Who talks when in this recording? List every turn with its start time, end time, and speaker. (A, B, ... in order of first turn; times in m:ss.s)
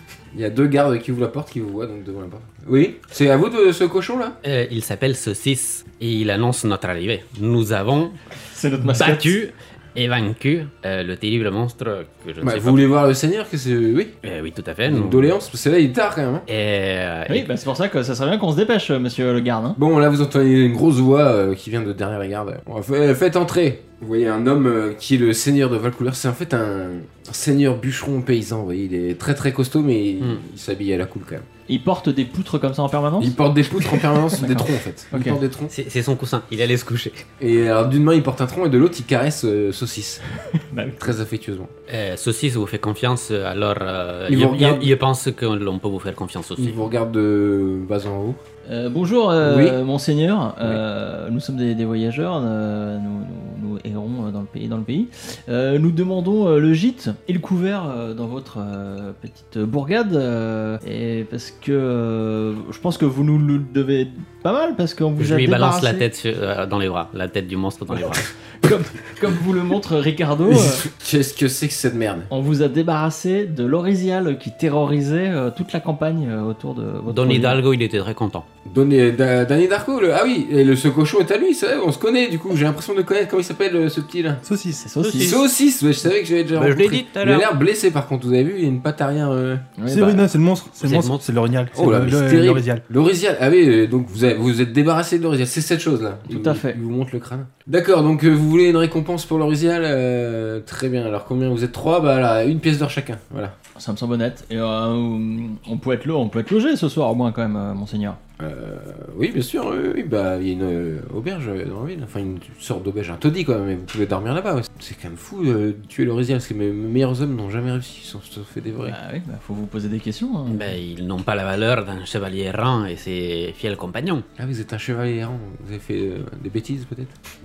0:00.3-0:04.4 A
0:04.4-0:08.2 B
0:08.5-0:09.4 C
0:09.0-0:12.9 B
0:12.4-0:14.2 A
0:14.2-0:15.4 B
0:14.9-0:16.5 A
0:16.5-0:17.5 B
0:17.3-0:19.8 C
0:19.8-0:31.5 A
0:31.7-0:35.4 C
0:33.2-0:35.7 A
0:35.7-0:37.2 B
0:37.4-0:40.2 A
0:40.5-0:41.1 C
0:41.0-0:41.7 A
0:41.9-0:46.8 B
0:44.3-0:44.9 A
0:46.6-0:48.4 A
0:48.6-1:06.1 C
0:49.4-0:49.8 A
1:05.2-1:08.3 B
1:08.6-1:10.8 C
1:10.5-1:12.3 A
1:12.3-1:17.6 C
1:17.1-1:18.5 B
1:18.7-1:24.4 A
1:24.4-1:24.8 D
1:24.8-1:25.4 C
1:25.0-1:25.5 B
1:25.2-1:29.7 A
1:26.6-1:27.5 B
1:29.8-1:30.3 C
1:29.9-1:32.8 D
1:30.8-1:31.2 B
1:31.7-1:43.6 A
1:36.3-1:36.8 C
1:43.8-1:48.2 C
1:48.4-1:59.0 A
1:58.8-2:00.8 C
2:00.5-2:04.2 B
2:04.4-2:07.1 A